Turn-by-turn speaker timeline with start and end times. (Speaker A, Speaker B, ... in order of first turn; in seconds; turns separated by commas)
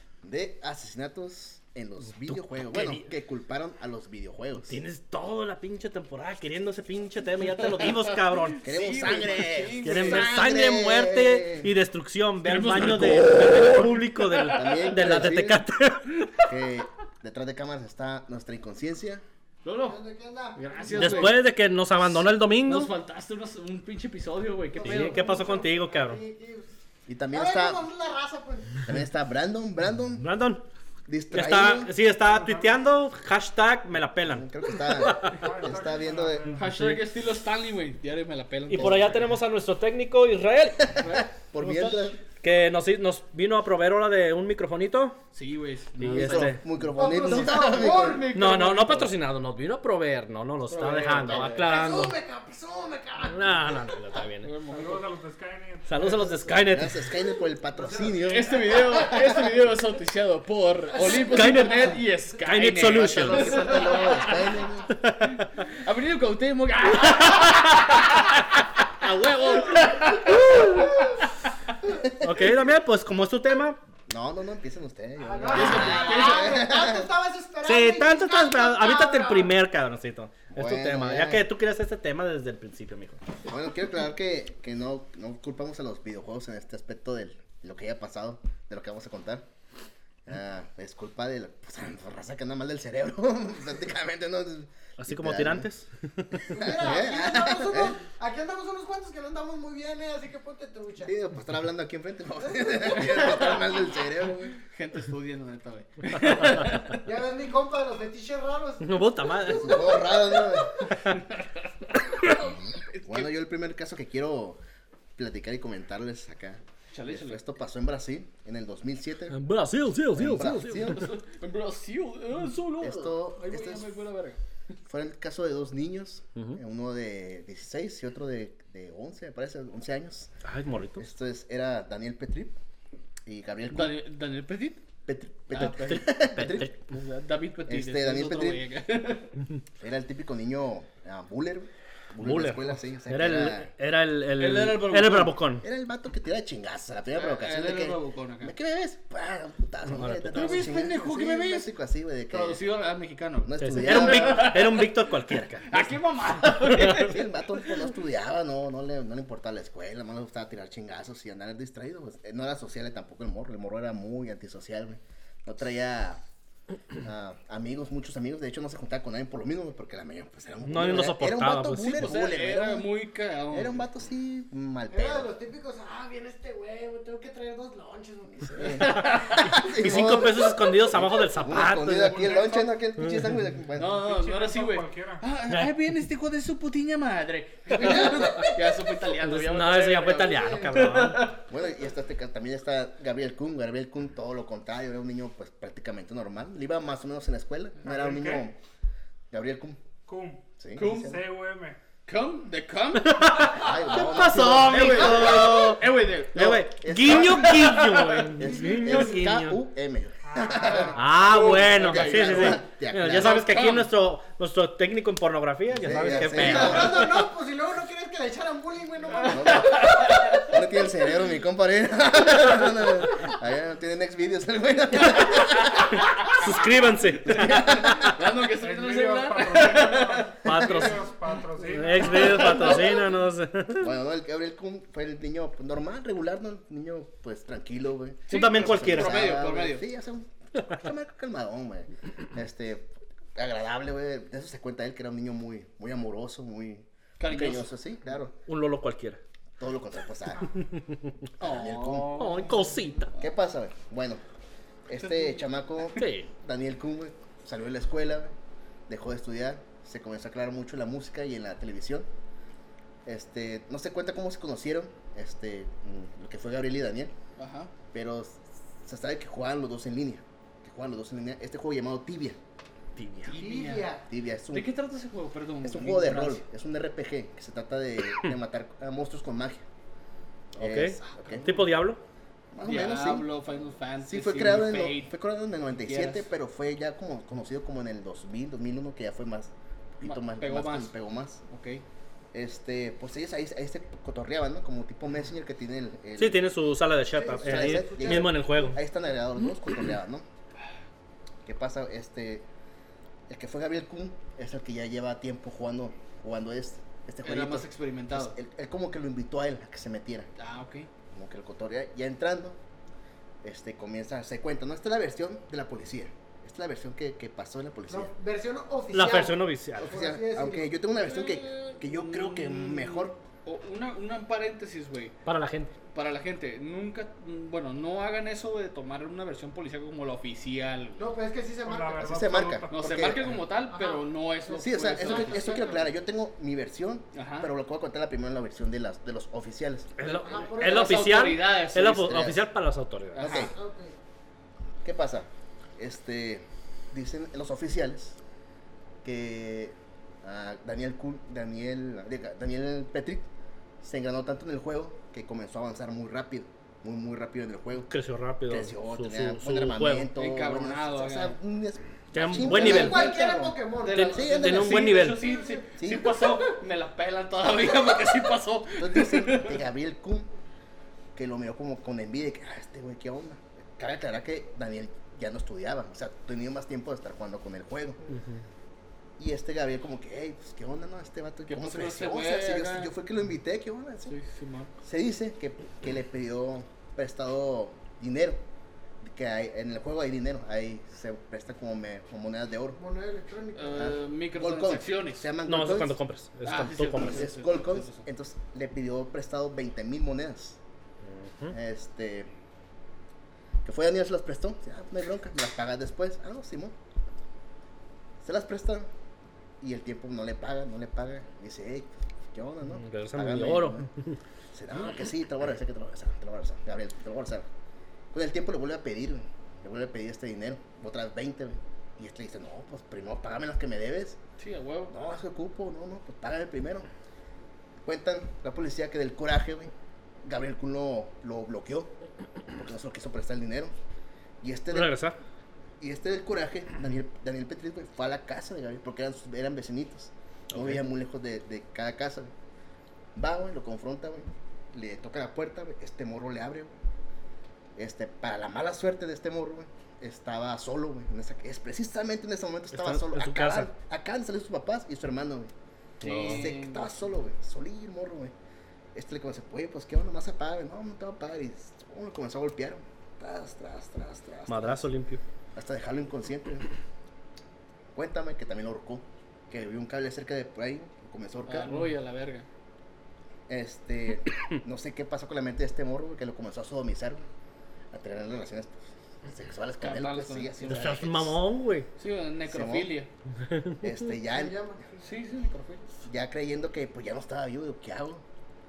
Speaker A: 0.2-4.8, Speaker B: 2.2-3.1, Speaker B: 4.7-8.6, Speaker C: 7.5-10.3, Speaker A: 8.6-11.7, Speaker B: 9.8-16.3, Speaker C: 12.4-14.9, Speaker A: 12.8-13.6, Speaker A: 14.5-15.6, Speaker A: 16.5-19.2, Speaker C: 19.6-20.0, Speaker D: 19.9-21.4, Speaker C: 20.6-21.4, Speaker B: 20.9-22.9, Speaker C: 22.6-25.4, Speaker D: 24.8-26.7, Speaker B: 24.8-26.2, Speaker A: 27.1-27.9, Speaker D: 27.3-28.9, Speaker A: 28.8-30.3, Speaker B: 30.1-30.6, Speaker A: 31.1-31.9, Speaker B: 31.3-34.5, Speaker A: 34.2-36.5, Speaker B: 35.0-35.4, Speaker E: 35.2-36.7, Speaker C: 36.5-39.1, Speaker B: 36.6-37.0, Speaker B: 38.7-41.0, Speaker A: 38.8-39.1, Speaker A: 40.9-42.2, Speaker C: 41.0-42.2, Speaker B: 42.4-45.2, Speaker C: 45.3-46.5, Speaker B: 46.0-46.6, Speaker A: 46.0-48.3, Speaker D: 46.9-48.3, Speaker C: 47.3-49.1, Speaker B: 48.3-52.2, Speaker C: 50.7-51.9, Speaker D: 51.5-54.2, Speaker B: 53.2-54.5, Speaker C: 54.4-55.1, Speaker E: 54.7-56.4, Speaker B: 55.9-57.1, Speaker A: 56.7-59.5, Speaker C: 58.2-64.4, Speaker B: 61.1-63.7, Speaker A: 62.9-64.9, Speaker B: 64.9-65.5, Speaker C: 65.7-70.7, Speaker B: 69.5-70.9, Speaker A: 71.9-72.6, Speaker B: 72.2-73.8, Speaker A: 74.1-77.1, Speaker D: 75.2-79.5, Speaker C: 75.5-76.6, Speaker B: 77.6-83.2, Speaker A: 80.5-81.5, Speaker A: 83.5-89.5, Speaker A: 90.3-95.7, Speaker B: 95.0-96.5, Speaker D: 96.5-101.2, Speaker A: 96.5-98.0, Speaker A: 101.0-104.6, Speaker D: 102.4-102.9, Speaker C: 104.6-106.9, Speaker B: 106.3-106.8, Speaker D: 106.8-110.7, Speaker B: 108.8-109.9, Speaker A: 109.5-110.9, Speaker A: 112.4-114.6, Speaker C: 112.9-113.3, Speaker A: 115.2-119.4, Speaker C: 116.9-117.4, Speaker B: 119.3-121.1, Speaker A: 120.1-121.1, Speaker C: 120.7-124.4, Speaker A: 122.8-124.0, Speaker A: 124.9-130.3, Speaker B: 130.4-131.0, Speaker A: 131.0-132.6, Speaker A: 133.2-134.0, Speaker C: 133.7-134.8, Speaker A: 135.1-136.7, Speaker C: 135.5-136.1, Speaker B: 135.5-136.9, Speaker C: 136.9-139.4, Speaker A: 137.7-138.6, Speaker A: 139.8-143.7, Speaker B: 142.2-145.6, Speaker C: 144.4-145.3, Speaker A: 145.4-152.6, Speaker C: 147.2-148.5, Speaker B: 149.9-150.7, Speaker C: 150.3-151.7, Speaker C: 152.3-157.7, Speaker A: 153.4-154.6, Speaker B: 153.6-157.1, Speaker A: 156.9-166.2, Speaker A: 167.0-172.9, Speaker B: 170.7-172.2, Speaker C: 171.8-173.9, Speaker A: 173.5-175.3, Speaker D: 174.9-179.3, Speaker A: 178.4-184.1, Speaker B: 178.8-182.3, Speaker C: 182.1-182.7, Speaker B: 183.0-183.3, Speaker C: 183.8-191.4, Speaker E: 183.9-185.2, Speaker B: 187.7-188.5, Speaker B: 189.2-191.4, Speaker A: 191.5-198.6, Speaker E: 197.8-198.5, Speaker A: 199.3-199.8, Speaker E: 200.1-201.8, Speaker A: 200.6-201.2, Speaker C: 200.8-201.2, Speaker C: 202.1-206.6, Speaker B: 203.1-209.6, Speaker A: 203.5-205.5, Speaker A: 206.3-207.8, Speaker C: 207.1-208.3, Speaker A: 208.3-213.5, Speaker D: 208.4-209.1, Speaker E: 210.2-211.1, Speaker C: 210.6-212.7, Speaker B: 211.0-217.1, Speaker C: 213.2-213.9, Speaker A: 215.7-217.1, Speaker D: 215.9-220.5, Speaker A: 219.3-225.9, Speaker B: 225.2-228.1, Speaker A: 227.3-227.7, Speaker C: 227.3-230.3, Speaker E: 228.5-232.8, Speaker B: 230.4-231.1, Speaker A: 230.5-230.9, Speaker B: 231.6-233.9, Speaker C: 232.2-232.9, Speaker A: 232.5-232.8, Speaker A: 233.8-248.4, Speaker B: 238.3-239.3, Speaker C: 238.3-239.9, Speaker C: 247.2-247.7, Speaker B: 248.5-249.2, Speaker A: 249.6-250.5, Speaker C: 251.4-253.2, Speaker A: 251.4-252.3, Speaker B: 252.2-253.1, Speaker A: 253.2-254.2, Speaker A: 254.9-258.3, Speaker C: 255.0-255.9, Speaker B: 256.0-256.3, Speaker A: 258.9-262.1, Speaker A: 263.1-267.1, Speaker C: 267.4-267.7, Speaker A: 267.9-272.4, Speaker B: 273.0-273.4, Speaker C: 273.2-273.9, Speaker D: 273.4-274.1, Speaker A: 274.1-274.7, Speaker C: 274.5-276.4, Speaker A: 275.6-279.6, Speaker A: 280.5-281.5, Speaker B: 280.6-282.0, Speaker A: 282.5-283.3, Speaker C: 282.6-285.1, Speaker A: 284.0-291.4, Speaker C: 285.7-286.3, Speaker C: 290.0-290.9, Speaker C: 291.5-291.8, Speaker A: 292.3-296.4, Speaker B: 296.2-298.8, Speaker D: 297.1-298.5, Speaker A: 297.4-300.2, Speaker A: 301.4-302.5, Speaker A: 303.3-310.3, Speaker C: 307.2-308.4, Speaker C: 310.4-310.9, Speaker A: 311.1-312.6, Speaker A: 313.4-318.1, Speaker D: 317.9-320.8, Speaker B: 318.9-320.0, Speaker A: 319.8-323.2, Speaker C: 320.9-325.1, Speaker B: 325.3-325.7, Speaker C: 325.9-331.1, Speaker D: 331.0-332.3, Speaker E: 331.6-333.0, Speaker A: 332.0-333.4, Speaker C: 332.7-335.8, Speaker D: 333.7-335.9, Speaker A: 334.6-339.9, Speaker C: 337.1-337.5, Speaker B: 340.0-343.3, Speaker D: 340.0-341.1, Speaker C: 340.6-342.3, Speaker A: 342.0-342.4, Speaker A: 343.2-343.6, Speaker D: 343.2-344.0, Speaker A: 344.8-348.2, Speaker A: 349.0-353.3, Speaker A: 353.8-357.9, Speaker B: 357.9-360.1, Speaker A: 358.5-364.9, Speaker C: 360.2-361.4, Speaker B: 362.1-363.2, Speaker C: 362.1-363.1, Speaker D: 362.4-364.1, Speaker C: 363.8-369.6, Speaker B: 363.9-365.3, Speaker D: 365.0-365.7, Speaker A: 365.8-366.2, Speaker A: 368.8-370.3, Speaker A: 371.1-378.0, Speaker B: 378.1-378.4, Speaker A: 379.2-384.1, Speaker C: 381.5-382.9, Speaker C: 384.1-384.7, Speaker A: 384.8-388.4, Speaker A: 389.0-392.8, Speaker D: 392.8-394.0, Speaker C: 393.6-395.3, Speaker A: 393.7-396.0, Speaker B: 395.4-397.3, Speaker C: 396.4-398.1, Speaker A: 397.0-400.6, Speaker B: 401.1-401.6, Speaker A: 401.5-402.3, Speaker A: 403.6-406.8, Speaker A: 408.2-408.9, Speaker A: 409.6-413.9, Speaker B: 412.8-414.2, Speaker A: 414.5-417.5, Speaker A: 418.1-424.2, Speaker C: 424.4-424.9, Speaker A: 424.9-426.9, Speaker A: 427.8-429.7, Speaker A: 430.2-431.9, Speaker A: 432.5-433.7, Speaker A: 434.4-434.9, Speaker B: 434.7-435.2, Speaker A: 435.8-442.3, Speaker B: 440.5-440.8, Speaker A: 443.1-446.8, Speaker A: 447.8-455.5, Speaker B: 452.7-453.7, Speaker C: 456.0-456.9, Speaker B: 456.0-456.5, Speaker A: 456.1-458.3, Speaker A: 458.9-464.9, Speaker B: 464.5-465.2, Speaker A: 465.6-466.7, Speaker A: 467.9-471.8, Speaker C: 471.5-472.5, Speaker A: 473.5-477.3, Speaker A: 477.9-481.4, Speaker C: 479.8-481.0, Speaker B: 480.7-481.9, Speaker C: 482.0-483.1, Speaker A: 482.5-482.9, Speaker B: 483.5-483.8, Speaker A: 483.8-484.6, Speaker D: 484.3-485.1, Speaker C: 485.0-485.9, Speaker A: 486.0-488.2